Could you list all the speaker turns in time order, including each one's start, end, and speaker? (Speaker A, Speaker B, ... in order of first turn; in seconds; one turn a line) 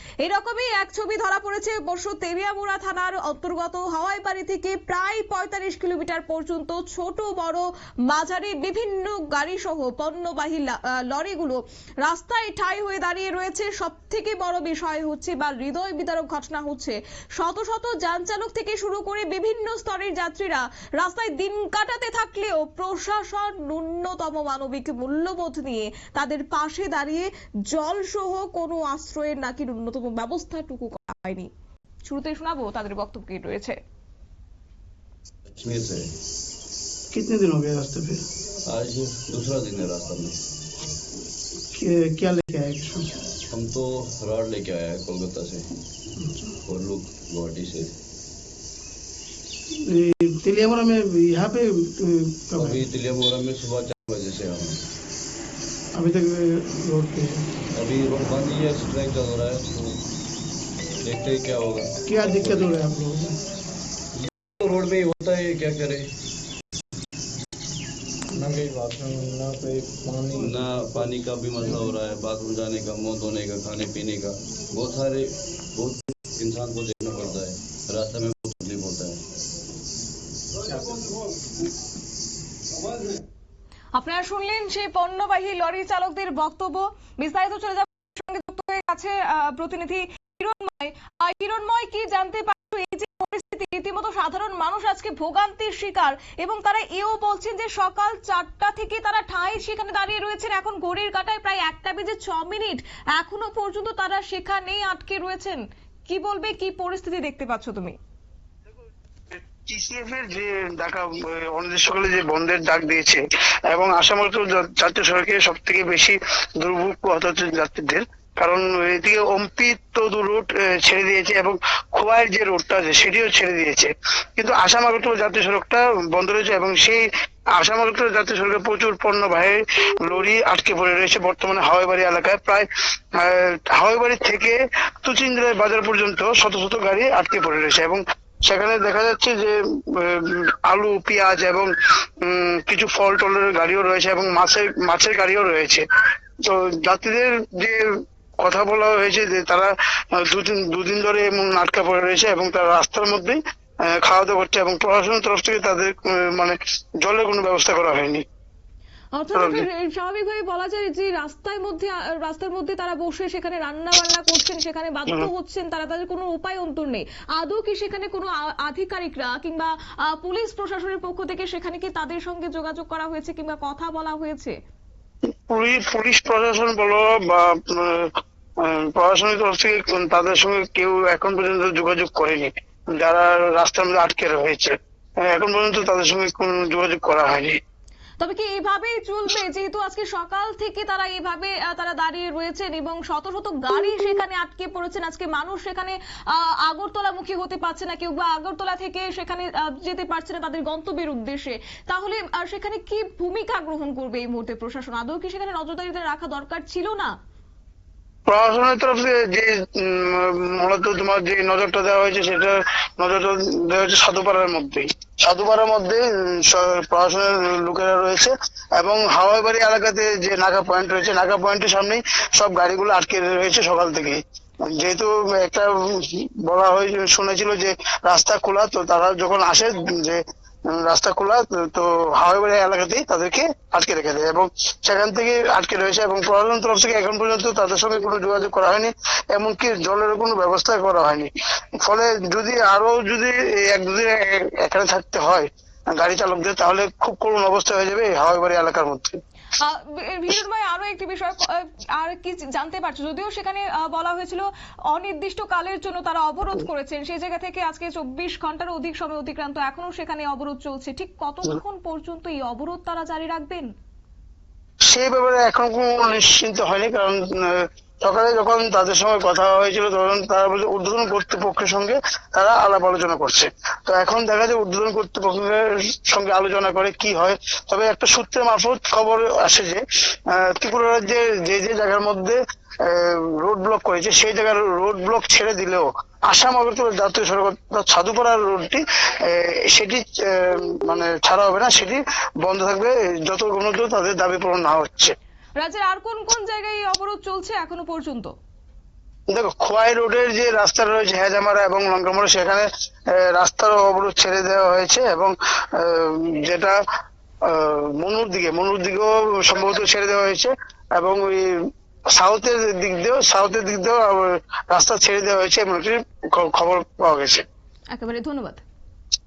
Speaker A: 0.2-31.5
Speaker A: 32.0-33.8
Speaker B: 35.5-36.1
Speaker C: 37.1-38.1
Speaker D: 37.2-38.1
Speaker B: 38.6-40.4
Speaker C: 41.9-43.0
Speaker D: 42.3-42.9
Speaker B: 43.5-45.6
Speaker B: 46.6-47.9
Speaker C: 50.0-52.8
Speaker B: 52.5-54.8
Speaker C: 56.0-57.2
Speaker B: 57.7-60.0
Speaker B: 61.0-62.7
Speaker C: 62.1-63.3
Speaker B: 64.2-66.0
Speaker E: 68.3-70.6
Speaker B: 70.3-79.2
Speaker B: 80.6-81.1
Speaker A: 83.9-108.0
Speaker D: 109.3-141.7
Speaker D: 142.2-145.8
Speaker D: 146.4-147.8
Speaker D: 148.4-158.2
Speaker A: 159.1-174.5
Speaker D: 159.3-159.6
Speaker D: 175.5-187.6
Speaker A: 188.2-207.2
Speaker D: 208.3-249.2
Speaker A: 249.6-263.7
Speaker D: 264.9-295.1
Speaker A: 295.6-298.3
Speaker D: 299.3-306.7
Speaker D: 307.4-311.6
Speaker D: 312.1-317.4
Speaker A: 317.9-318.6